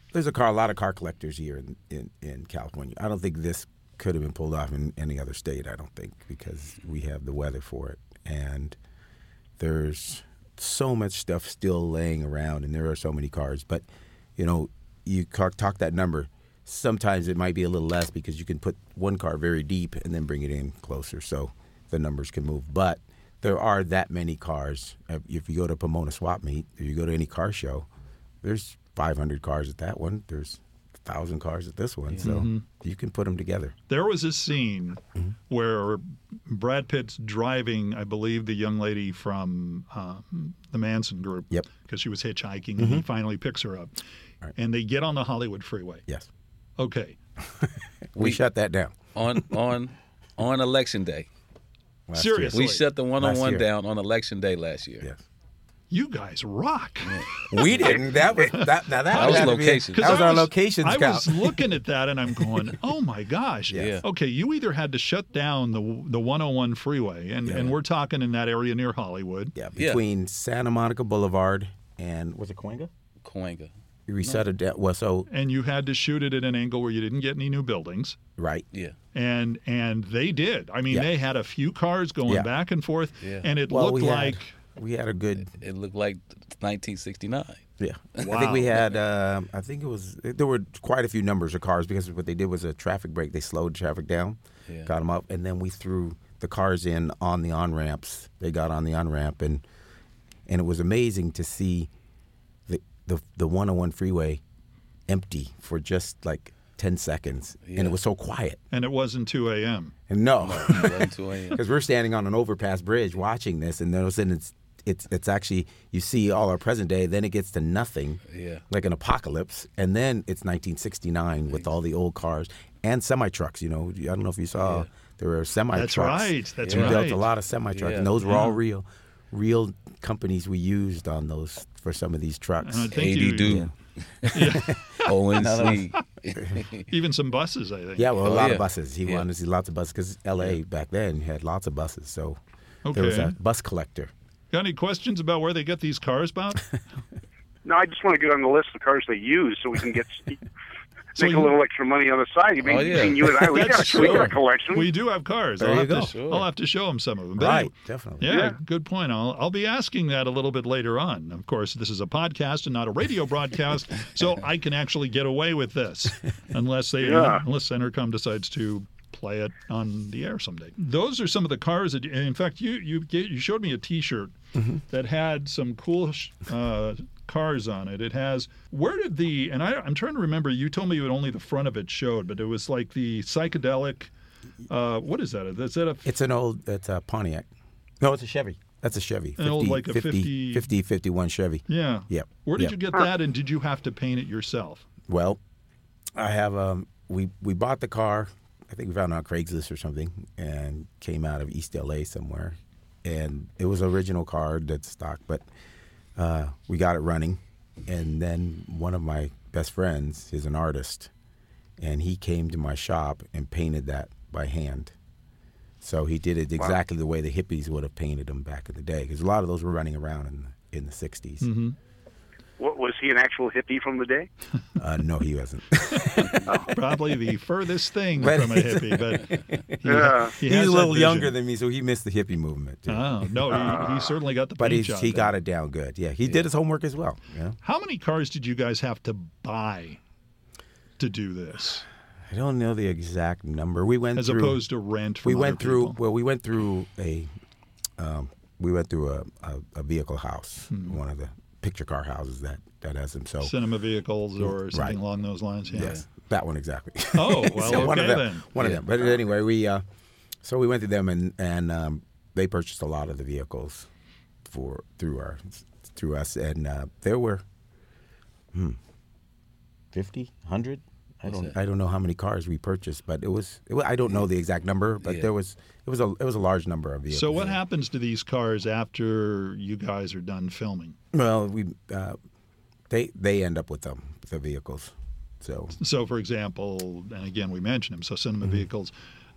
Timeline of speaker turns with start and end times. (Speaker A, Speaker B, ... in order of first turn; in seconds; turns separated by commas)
Speaker A: 0.1-8.8, Speaker A: 9.6-13.8, Speaker A: 14.4-27.9, Speaker A: 28.4-33.7, Speaker B: 32.2-32.6, Speaker B: 33.9-43.9, Speaker A: 42.8-43.0, Speaker B: 44.5-46.0, Speaker B: 46.8-47.2, Speaker A: 47.5-49.4, Speaker C: 48.1-48.4, Speaker C: 49.1-51.3, Speaker A: 52.1-52.6, Speaker B: 52.1-52.8, Speaker C: 52.5-55.1, Speaker A: 53.2-53.6, Speaker B: 55.9-57.5, Speaker C: 57.0-58.4, Speaker A: 57.5-61.6, Speaker B: 58.4-69.5, Speaker C: 59.1-60.3, Speaker A: 63.7-64.0, Speaker C: 63.7-64.0, Speaker A: 67.5-67.7, Speaker A: 69.5-72.9, Speaker C: 73.2-73.7, Speaker A: 74.1-75.3, Speaker B: 75.3-78.2, Speaker A: 78.4-78.7, Speaker B: 79.1-84.5, Speaker C: 83.2-83.5, Speaker A: 83.7-85.5, Speaker C: 85.5-87.7, Speaker A: 87.8-99.6, Speaker C: 88.2-88.5, Speaker B: 88.2-88.8, Speaker A: 100.5-101.9, Speaker A: 102.7-104.4, Speaker A: 105.1-108.6, Speaker C: 107.6-108.0, Speaker B: 108.7-109.9, Speaker A: 110.1-132.9, Speaker C: 110.4-111.6, Speaker C: 118.3-118.6, Speaker C: 124.6-124.9, Speaker B: 125.7-127.2, Speaker C: 126.6-127.0, Speaker C: 127.7-128.4, Speaker B: 128.2-128.6, Speaker B: 132.6-133.7, Speaker C: 132.9-136.8, Speaker B: 134.3-135.1, Speaker A: 134.5-136.6, Speaker B: 136.9-138.2, Speaker A: 138.0-142.4, Speaker C: 138.2-139.2, Speaker B: 142.8-143.3, Speaker A: 142.9-144.1, Speaker B: 144.5-146.7, Speaker D: 147.6-150.4, Speaker D: 151.1-154.9, Speaker B: 151.2-151.5, Speaker C: 152.6-154.3, Speaker B: 153.5-184.1, Speaker A: 155.6-156.1, Speaker C: 155.9-156.5, Speaker A: 157.4-158.3, Speaker D: 158.3-158.6, Speaker D: 167.0-167.4, Speaker B: 184.7-186.1, Speaker A: 186.0-187.5, Speaker A: 188.0-192.7, Speaker B: 189.4-190.7, Speaker B: 191.7-194.8, Speaker A: 195.1-195.4, Speaker A: 196.1-205.4, Speaker A: 206.2-211.1, Speaker A: 211.8-214.9, Speaker A: 215.8-221.5, Speaker B: 221.4-221.8, Speaker D: 222.6-224.3, Speaker A: 224.8-226.7, Speaker B: 226.7-229.4, Speaker A: 228.2-233.9, Speaker D: 229.8-230.3, Speaker B: 230.3-231.3, Speaker B: 232.9-235.3, Speaker D: 233.5-234.1, Speaker A: 234.6-237.6, Speaker B: 237.6-240.0, Speaker B: 241.0-241.8, Speaker A: 242.3-244.6, Speaker B: 244.1-246.0, Speaker A: 245.2-247.3, Speaker A: 248.0-253.5, Speaker B: 250.7-251.0, Speaker B: 253.4-256.0, Speaker A: 254.4-255.0, Speaker A: 255.7-259.8, Speaker B: 257.1-258.5, Speaker C: 258.6-258.8, Speaker A: 260.4-263.9, Speaker A: 264.4-267.4, Speaker A: 268.5-268.8, Speaker A: 269.9-277.6, Speaker C: 271.2-271.6, Speaker B: 277.1-280.9, Speaker A: 281.1-282.2, Speaker A: 282.9-285.8, Speaker B: 285.8-288.9